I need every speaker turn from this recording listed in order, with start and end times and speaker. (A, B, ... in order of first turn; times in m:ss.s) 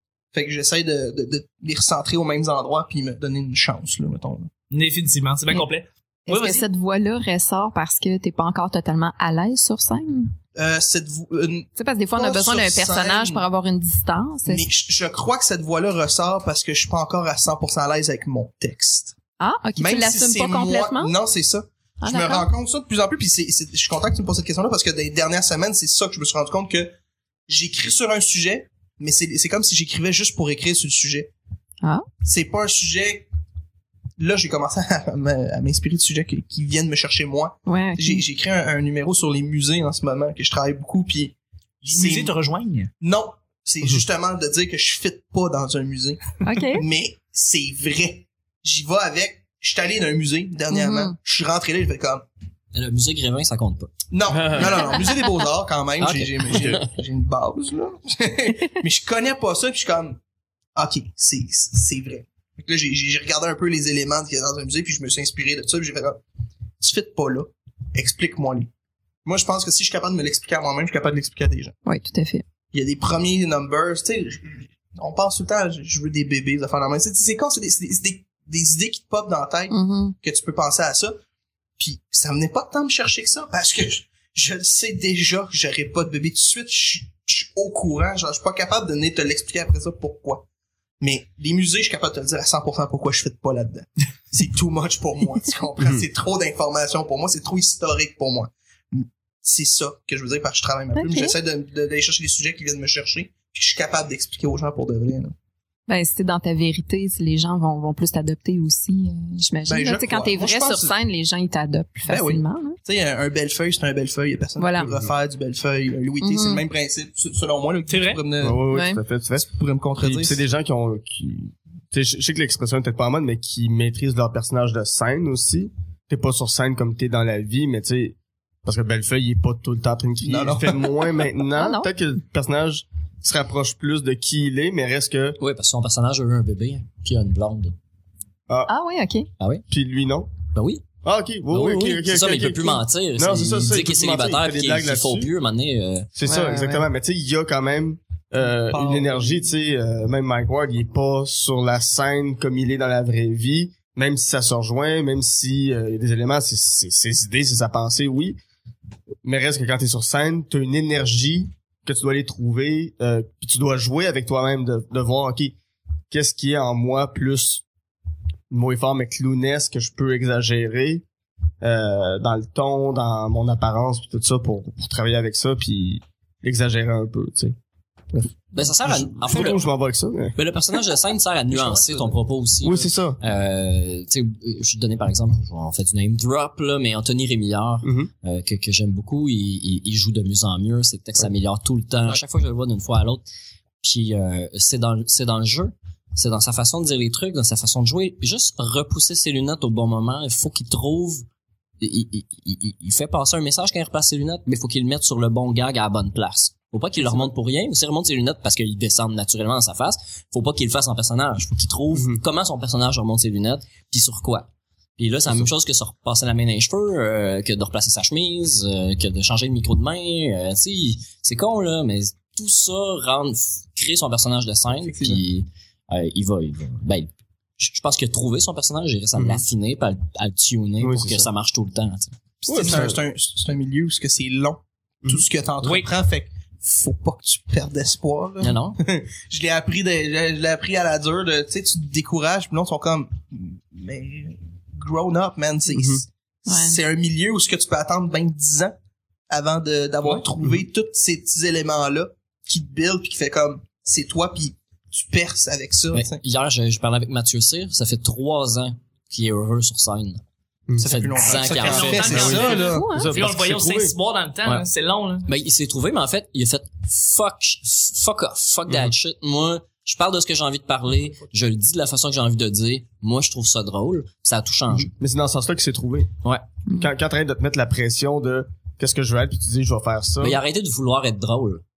0:00.3-0:04.5 A
0:04.7-0:06.7 B
0:06.3-0:10.4 C
0:10.6-0:13.4 A
0:11.8-0:14.7 C
0:14.5-0:19.2 A
0:19.4-0:21.1 C
0:19.8-0:26.9 A
0:22.0-0:22.5 C
0:27.5-0:31.3 A
0:32.2-0:33.3 A
0:34.2-0:41.3 A
0:37.7-0:38.2 C
0:41.8-0:42.9 B
0:41.9-0:42.3 A
0:43.0-0:52.2 A
0:46.4-0:46.8 C
0:50.7-0:51.2 C
0:52.7-0:53.9 D
0:54.1-1:00.2 A
0:56.0-0:56.9 D
1:00.8-1:06.2 A
1:06.8-1:08.7 A
1:09.2-1:11.7 A
1:11.8-1:12.4 C
1:12.7-1:21.2 A
1:19.7-1:20.1 C
1:21.8-1:30.4 A
1:31.0-1:45.3 A
1:35.8-1:36.0 E
1:40.9-1:41.4 C
1:45.9-1:52.8 C
1:49.7-1:51.0 A
1:52.1-1:58.7 A
1:54.6-1:54.9 C
1:54.8-1:55.1 E
1:56.2-1:56.6 C
1:57.9-1:58.2 B
1:58.4-1:59.5 E
1:58.7-1:59.0 C
1:59.4-2:00.4 A
2:00.0-2:15.4 E
2:10.2-2:11.1 A
2:11.5-2:11.9 C
2:15.4-2:17.8 D
2:18.7-2:19.3 C
2:19.4-2:19.6 D
2:19.7-2:20.3 E
2:20.5-2:20.8 D
2:21.0-2:25.3 E
2:21.5-2:26.1 D
2:26.2-2:38.4 E
2:26.3-2:26.9 C
2:28.5-2:29.4 A
2:39.2-2:45.6 E
2:46.1-2:47.6 E
2:48.5-2:51.0 E
2:51.6-2:57.6 E
2:58.2-3:00.4 E
2:58.5-2:59.7 D
3:00.4-3:13.2 D
3:01.5-3:02.2 A
3:02.6-3:03.2 E
3:07.8-3:08.1 E
3:13.8-3:21.3 D
3:21.8-3:52.2 D
3:32.0-3:32.2 E
3:44.8-3:45.2 A
3:49.2-3:49.4 E
3:50.8-3:51.3 E
3:52.4-4:08.8 A
3:52.5-3:53.0 E
3:55.6-3:55.9 B
3:58.4-3:58.8 D
4:05.7-4:06.0 E
4:06.5-4:06.8 C
4:09.3-4:16.2 A
4:15.9-4:20.2 D
4:20.8-4:22.6 D
4:20.8-4:22.9 A
4:21.2-4:25.3 B
4:21.9-4:23.9 E
4:22.6-4:23.2 C
4:25.3-4:34.9 D
4:34.7-4:36.1 E
4:36.8-4:40.4 E
4:40.2-4:41.6 D